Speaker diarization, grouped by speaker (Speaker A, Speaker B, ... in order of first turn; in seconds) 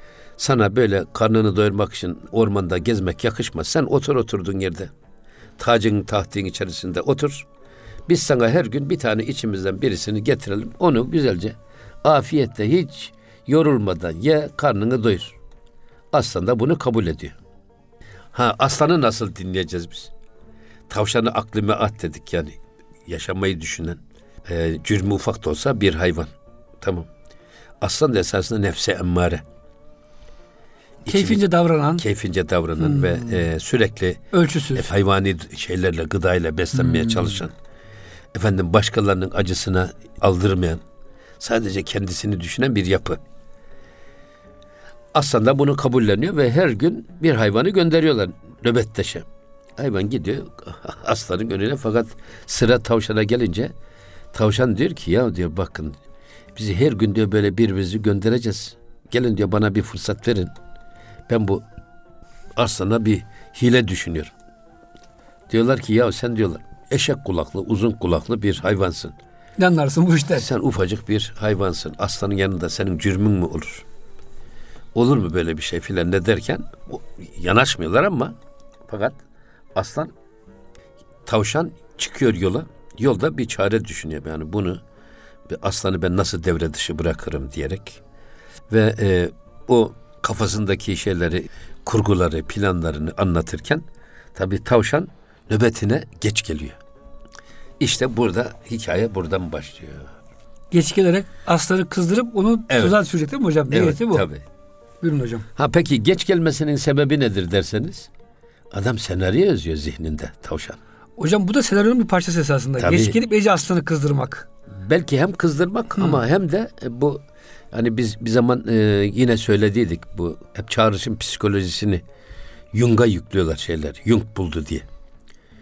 Speaker A: 0.4-4.9, 5.6-7.5, 8.1-15.4, 16.1-17.4, 18.3-20.1, 20.9-27.1, 27.8-29.4, 31.0-31.4, 32.0-34.2, 34.7-37.5, 38.3-40.8, 41.4-43.2, 45.1-49.2, 49.8-53.7, 54.3-56.0, 56.5-60.5, 61.3-61.6, 62.5-64.3, 65.5-69.2, 70.3-73.8, 74.9-78.3, 78.9-79.2, 79.7-80.1, 81.2-84.8, 85.5-88.0, 88.7-96.8, 97.8-100.1, 102.7-103.0, 103.7-104.4, 105.6-108.1, 108.7-110.8, 112.8-113.2, 114.7-117.2, 117.7-122.0, 122.7-124.8
Speaker B: 31.1-32.0, 32.8-33.2, 34.3-34.9, 36.9-37.3, 69.6-70.5, 100.7-104.3, 105.0-105.4, 111.2-114.5